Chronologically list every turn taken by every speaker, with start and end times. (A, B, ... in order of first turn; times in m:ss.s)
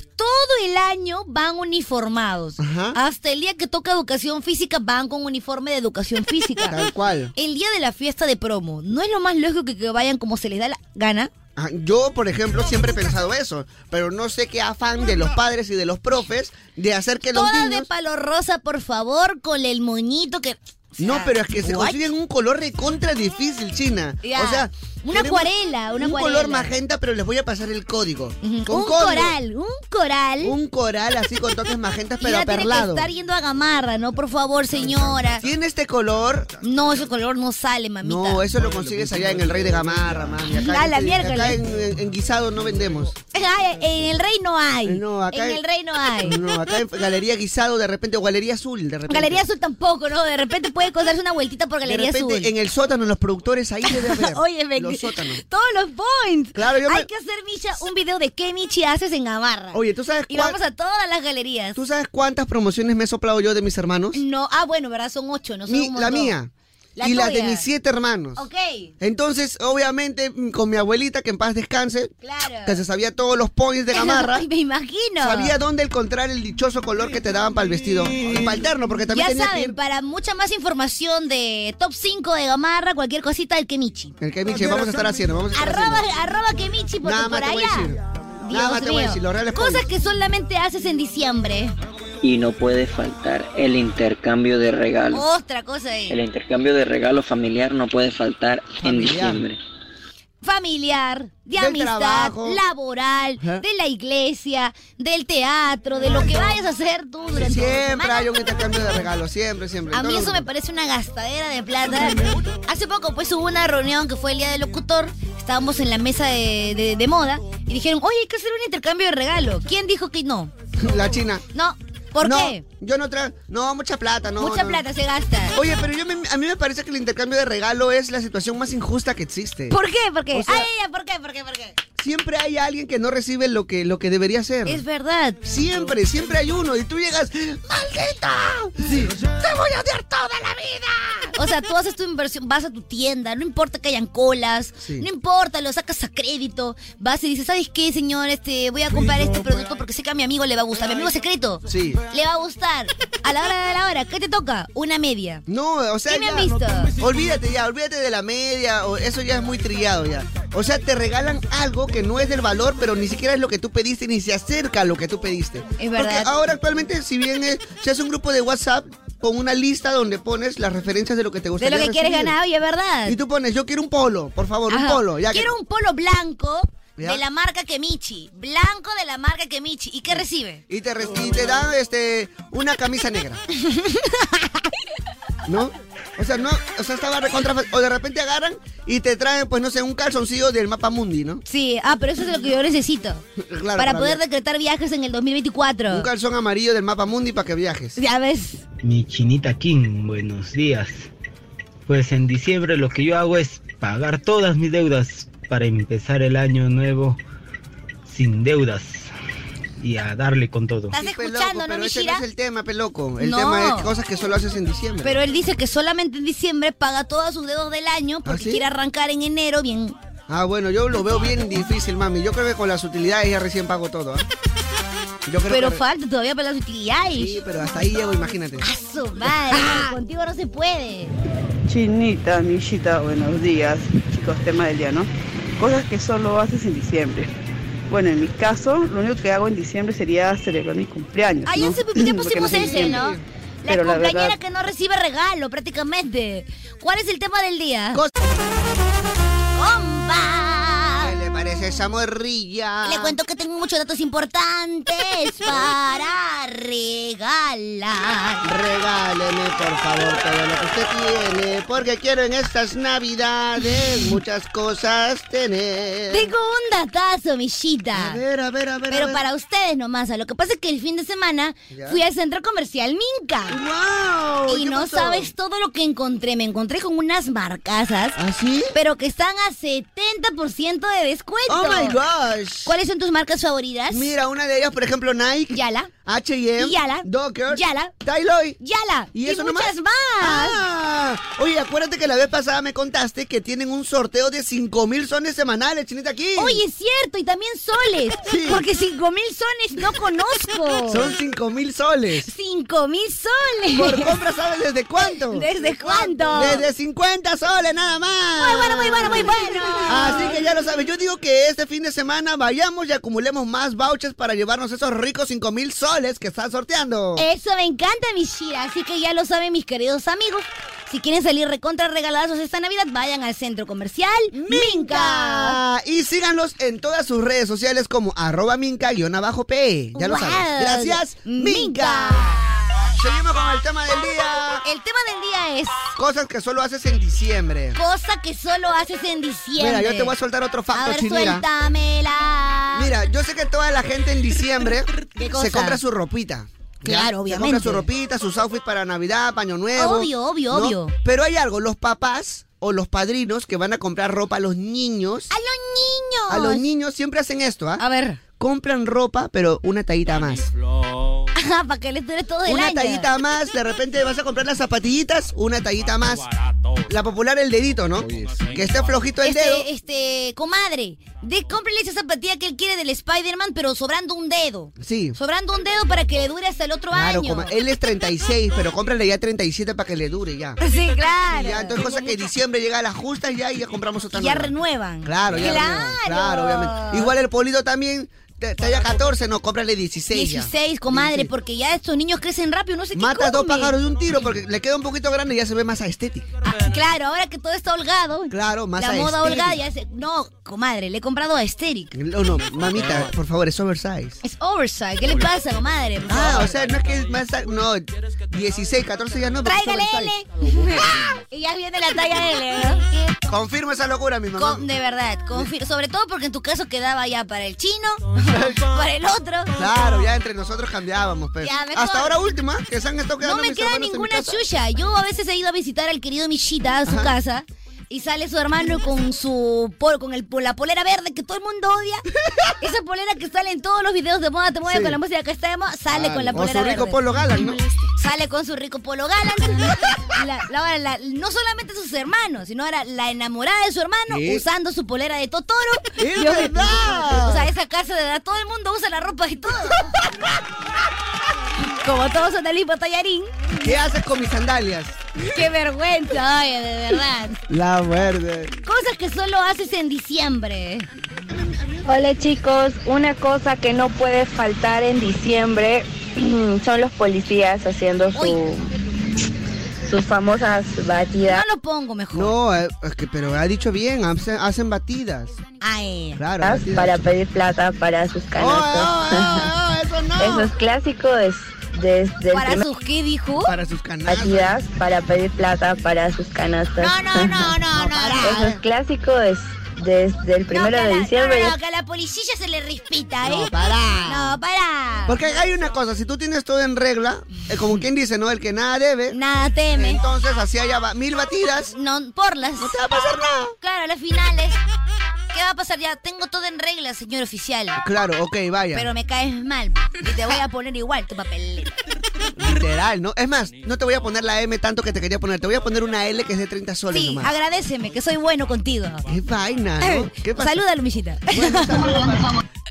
0:00.2-0:06.8 A
0:02.6-0:03.0 B
0:06.6-0:07.3 B
0:07.4-0:11.3 A
0:11.6-0:17.9 B
0:17.3-0:22.0 A
0:21.0-0:29.3 B
0:24.2-0:26.7 A
0:28.4-0:30.6 A
0:30.4-0:33.1 B
0:32.2-0:35.4 A
0:35.3-0:36.8 B
0:36.6-0:38.4 A
0:38.0-0:43.2 B
0:40.5-0:41.6 A
0:43.3-0:46.4 A
0:44.8-0:45.6 B
0:46.2-0:49.4 B
0:49.1-0:52.5 A
0:51.8-0:55.4 B
0:53.8-1:01.8 A
0:56.5-0:57.1 B
0:59.7-1:00.6 B
1:01.7-1:04.2 B
1:04.1-1:06.3 A
1:05.7-1:08.4 B
1:07.0-1:07.6 A
1:08.4-1:08.9 A
1:09.0-1:12.1 B
1:12.2-1:12.8 A
1:12.6-1:14.4 B
1:13.9-1:15.5 A
1:15.2-1:19.8 B
1:19.1-1:24.1 A
1:24.2-1:26.0 B
1:25.5-1:27.9 A
1:27.0-1:29.9 B
1:28.4-1:31.7 A
1:32.2-1:35.2 C
1:35.1-1:36.2 A
1:36.1-1:39.6 C
1:38.8-1:39.4 B
1:40.4-1:48.3 A
1:41.6-1:42.6 B
1:43.4-1:43.6 B
1:47.3-1:50.4 B
1:49.9-2:00.5 A
2:00.8-2:01.4 B
2:01.5-2:02.6 A
2:02.2-2:04.8 B
2:04.4-2:05.6 A
2:05.5-2:09.7 B
2:09.7-2:11.8 A
2:10.3-2:10.7 B
2:12.0-2:14.8 B
2:14.6-2:15.4 A
2:15.4-2:21.3 B
2:21.3-2:35.4 A
2:24.8-2:25.1 B
2:31.6-2:32.0 B
2:35.5-2:52.4 B
2:36.1-2:36.9 A
2:45.8-2:46.3 A
2:51.6-2:53.2 A
2:53.0-2:55.5 B
2:54.7-3:00.6 A
2:57.0-2:57.2 B
3:00.7-3:03.4 B
3:03.6-3:04.5 A
3:05.5-3:11.4 B
3:11.4-3:13.2 A
3:13.4-3:14.2 B
3:13.8-3:16.1 A
3:15.9-3:18.0 B
3:18.0-3:18.6 A
3:18.8-3:21.1 D
3:21.9-3:27.2 D
3:28.0-3:29.1 D
3:29.8-3:30.9 D
3:30.9-3:32.2 A
3:30.9-3:35.2 B
3:33.2-3:33.9 A
3:35.0-3:40.0 A
3:38.2-3:38.6 B
3:40.3-3:44.3 B
3:45.2-3:45.8 B
3:45.5-3:47.4 A
3:47.1-3:48.7 B
3:48.6-3:51.2 A
3:51.7-3:57.3 E
3:57.9-4:03.1 E
4:01.4-4:08.0 A
4:02.4-4:03.2 B
4:03.7-4:04.4 E
4:09.5-4:11.1 A
4:11.0-4:13.1 B
4:12.8-4:18.4 A
4:18.4-4:26.3 B
4:26.1-4:28.2 A
4:27.9-4:29.2 B
4:28.9-4:33.6 A
4:31.7-4:32.0 B
4:33.5-4:35.3 B
4:34.5-4:38.2 A
4:38.2-4:38.7 B
4:38.7-4:42.0 A
4:41.5-4:42.7 B
4:42.6-4:44.1 A
4:43.9-4:48.6 B
4:45.5-4:45.9 A
4:46.6-4:47.9 A
4:48.6-4:50.6 A
4:49.1-4:56.6 B
4:56.4-5:01.1 A
4:58.2-4:58.6 B
5:00.9-5:02.3 B
5:02.2-5:04.1 A
5:03.7-5:17.2 B
5:05.0-5:06.6 A
5:08.4-5:10.4 A
5:17.2-5:25.6 A
5:24.3-5:34.6 B
5:29.9-5:32.5 A
5:34.6-5:35.9 A
5:36.0-5:37.8 B
5:37.7-5:40.1 A
5:39.6-5:41.4 B
5:40.7-5:42.9 A
5:42.7-5:55.3 B
5:45.2-5:45.8 A
5:46.8-5:47.9 A
5:49.8-5:50.9 A
5:55.3-5:56.6 A
5:56.3-5:57.8 B
5:57.8-5:58.2 A
5:58.4-6:00.5 B
6:01.4-6:03.1 A
6:02.4-6:06.3 B
6:06.9-6:09.6 B
6:09.2-6:17.5 A
6:14.8-6:15.2 B
6:16.9-6:20.6 B
6:20.6-6:22.2 A
6:21.3-6:24.5 B
6:24.1-6:27.1 A
6:25.0-6:31.3 B
6:30.1-6:33.7 A
6:32.9-6:36.3 B
6:36.5-6:41.9 A
6:38.3-6:39.6 B
6:41.9-6:44.2 B
6:44.2-6:46.5 A
6:46.1-6:50.1 B
6:49.4-6:53.1 A
6:53.3-6:54.6 B
6:54.4-6:59.6 A
6:59.6-7:04.4 B
7:01.4-7:02.1 A
7:03.2-7:12.0 A
7:06.8-7:07.1 B
7:12.3-7:12.5 B
7:12.6-7:29.9 A
7:14.6-7:15.0 B
7:15.9-7:17.6 B
7:24.1-7:24.4 B
7:26.0-7:27.5 B
7:31.6-7:33.4 A
7:33.6-7:35.0 B
7:35.3-7:37.4 A
7:37.5-7:38.5 B
7:38.6-7:40.9 A
7:41.3-7:41.7 B
7:41.8-7:48.7 F
7:49.8-7:51.4 F
7:51.2-7:52.3 A
7:52.1-7:55.4 B
7:55.6-7:56.2 A
7:56.2-7:57.0 B
7:56.4-7:59.5 F
7:58.4-8:00.5 B
8:00.2-8:02.6 F
8:02.3-8:03.5 A
8:03.4-8:04.6 B
8:04.1-8:07.5 F
8:06.8-8:08.5 A
8:07.7-8:08.6 B
8:08.2-8:11.6 F
8:10.5-8:13.5 A
8:13.2-8:14.4 B
8:14.0-8:15.2 A
8:15.1-8:19.2 B
8:19.1-8:20.0 A
8:19.7-8:21.7 B
8:21.7-8:22.7 A
8:22.6-8:23.5 B
8:23.6-8:24.6 A
8:25.3-8:27.8 A
8:27.8-8:28.9 B
8:28.7-8:31.7 A
8:32.4-8:37.3 B
8:36.9-8:39.0 A
8:39.1-8:40.6 B
8:39.8-8:42.1 A
8:41.3-8:42.3 B